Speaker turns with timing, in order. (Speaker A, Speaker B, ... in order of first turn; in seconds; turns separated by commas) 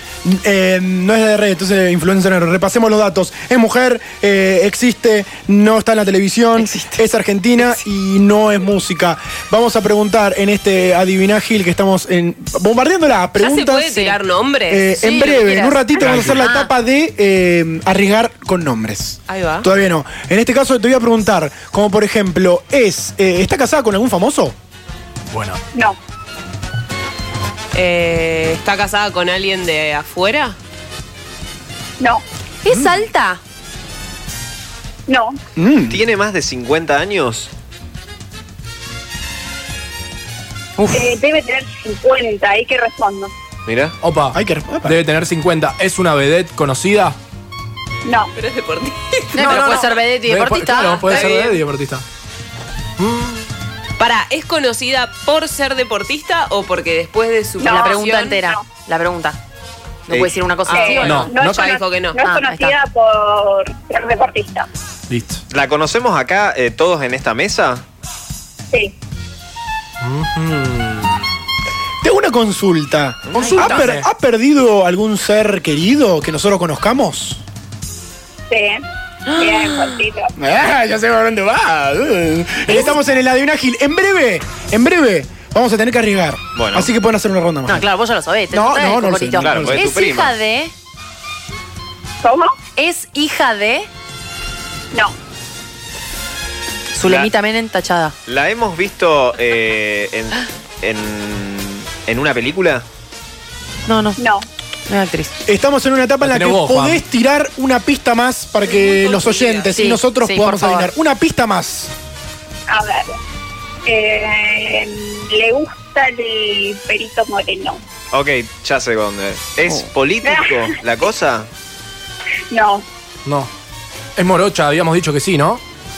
Speaker A: 0.2-13.9, Speaker B: 6.6-7.0, Speaker C: 13.4-15.2, Speaker B: 13.8-14.2, Speaker A: 14.7-24.5, Speaker B: 14.9-16.7, Speaker D: 16.0-16.4, Speaker C: 19.3-19.7, Speaker D: 25.3-25.6, Speaker C: 27.7-30.6, Speaker B: 32.6-33.4, Speaker A: 32.7-33.0, Speaker E: 35.1-35.4, Speaker A: 35.5-36.0, Speaker F: 35.9-37.5, Speaker E: 40.9-43.3, Speaker F: 43.6-43.9, Speaker D: 44.0-47.1, Speaker A: 44.3-45.0, Speaker E: 48.0-48.3, Speaker C: 48.4-50.0, Speaker B: 49.3-51.4, Speaker D: 50.2-52.0, Speaker C: 51.1-51.6, Speaker D: 53.0-53.5, Speaker C: 54.0-58.4, Speaker E: 57.6-58.6, Speaker B: 57.6-59.4, Speaker B: 60.1-61.4, Speaker F: 60.1-60.4, Speaker E: 60.7-64.7, Speaker C: 60.7-62.2, Speaker D: 61.0-61.6, Speaker B: 62.2-62.8, Speaker D: 65.1-65.4, Speaker F: 65.5-67.8, Speaker D: 70.0-71.2, Speaker A: 72.0-77.4, Speaker F: 73.3-73.6, Speaker B: 73.3-73.8, Speaker D: 73.4-74.0, Speaker E: 78.5-78.8, Speaker B: 79.3-80.0, Speaker E: 79.3-80.3, Speaker A: 80.3-87.9, Speaker B: 82.7-83.0, Speaker F: 86.5-86.9, Speaker B: 87.7-90.7, Speaker A: 88.5-89.8, Speaker F: 89.4-90.4, Speaker E: 92.2-92.5, Speaker B: 92.8-93.9, Speaker B: 96.9-98.1, Speaker F: 98.3-102.8, Speaker B: 103.8-104.2, Speaker E: 104.2-104.5, Speaker B: 104.9-105.4, Speaker A: 105.5-111.9, Speaker D: 106.2-107.0, Speaker C: 108.8-109.7, Speaker B: 109.7-110.9, Speaker E: 112.7-113.1, Speaker E: 113.8-117.8, Speaker F: 118.1-121.5, Speaker E: 120.2-120.7, Speaker E: 122.5-122.8, Speaker D: 124.2-125.6